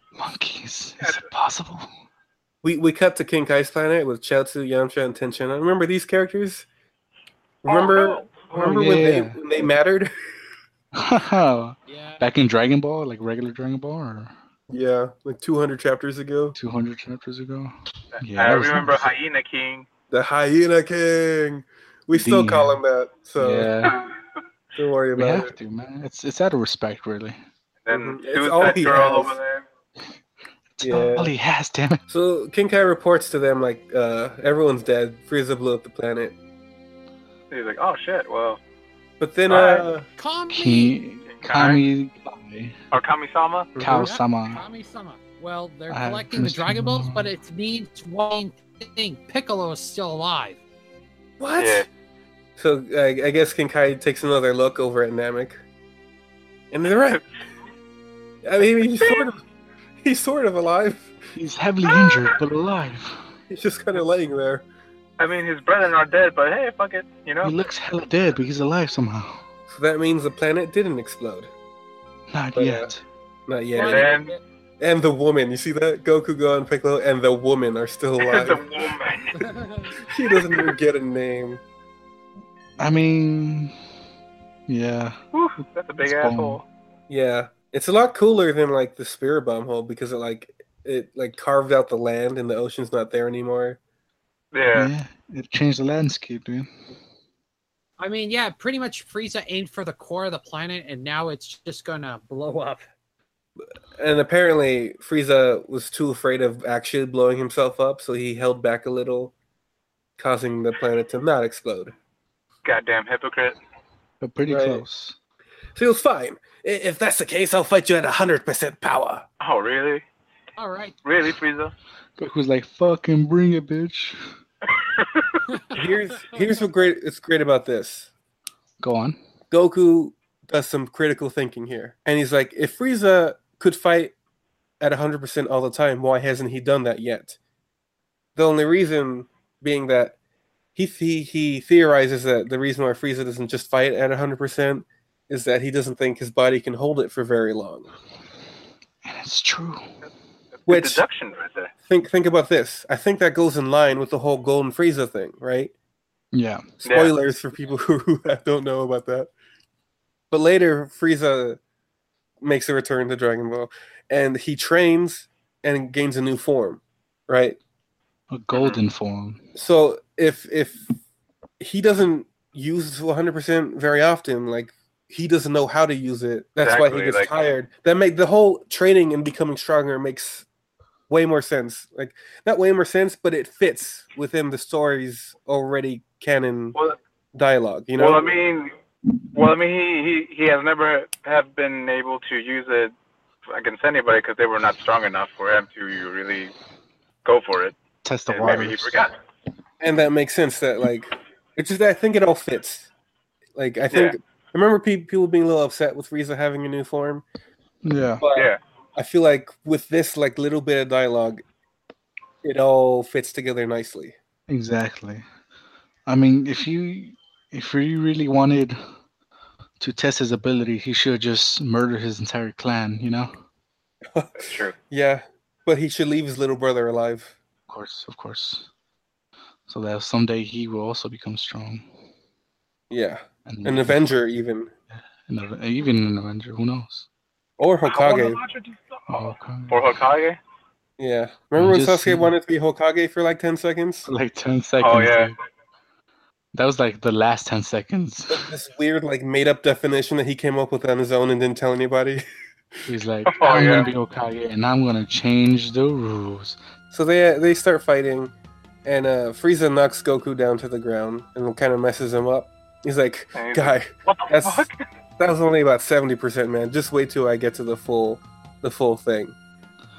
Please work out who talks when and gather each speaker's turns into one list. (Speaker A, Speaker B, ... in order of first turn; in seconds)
Speaker A: 0.2-1.9, 8.5-9.4, 10.9-14.3, 16.6-19.1, 22.1-22.8, 23.4-24.0, 25.1-27.4, 30.8-32.0, 40.5-42.7, 43.8-44.6, 45.9-47.3, 61.3-63.2, 67.4-69.4, 72.3-73.0, 82.8-83.7, 84.7-85.2, 86.0-86.6, 94.7-96.7, 114.2-115.1, 122.2-124.2, 128.8-129.2, 149.0-149.8, 156.3-156.7, 168.3-169.4, 198.0-199.0, 207.8-208.2, 214.5-215.2, 216.1-218.8, 219.8-223.3, 227.7-228.7, 229.7-231.8, 233.4-234.0, 235.2-237.1, 239.1-239.8, 241.6-242.3, 244.1-245.3, 246.5-248.4, 252.9-256.6
Speaker B: 1.0-1.3, 7.7-8.5, 18.2-19.9, 27.8-29.6, 37.5-38.6, 39.5-39.8, 41.3-41.8, 42.9-43.7, 51.6-51.9, 59.0-59.2, 61.9-62.3, 65.2-67.5, 73.8-74.3, 78.2-79.5, 85.3-86.6, 94.5-94.9, 112.6-113.6, 119.4-120.0, 121.0-121.7, 124.8-125.4, 150.6-151.7, 156.8-157.1, 168.5-168.8, 176.6-177.3, 188.0-188.7, 189.3-192.9, 193.5-196.5, 197.2-197.8, 198.3-199.1, 208.3-208.6, 224.4-224.7, 237.8-239.0, 239.7-240.4, 244.8-245.3, 253.2-253.9, 263.3-264.7
Speaker C: 2.6-6.7, 7.6-10.1, 14.7-16.6, 20.1-23.7, 24.7-25.5, 27.9-29.4, 30.8-31.3, 32.1-36.4, 39.2-40.0, 43.8-44.1, 51.4-51.9, 52.6-55.6, 56.7-57.2, 58.4-59.4, 60.0-61.3, 63.5-64.6, 69.7-71.5, 72.5-72.9, 73.5-74.1, 74.8-78.6, 80.0-81.6, 87.1-93.8, 104.0-109.3, 110.2-111.9, 114.5-114.8, 115.7-119.2, 125.7-128.1, 129.5-134.1, 134.8-137.4, 138.3-140.2, 140.8-147.9, 150.7-151.0, 151.9-155.7, 156.8-159.3, 160.3-161.6, 162.4-167.6, 169.5-170.9, 171.6-180.4, 181.1-186.8, 187.3-188.3, 199.8-202.9, 203.5-207.2, 208.2-211.4, 212.4-214.2, 224.1-227.3, 232.9-234.7, 237.6-238.4, 241.0-244.1, 248.3-252.2, 256.9-258.3, 258.8-264.7, 265.2-269.4
Speaker D: 11.9-12.2, 40.2-40.9, 43.9-50.6, 73.7-74.4, 79.3-79.9, 98.0-102.8, 120.6-121.0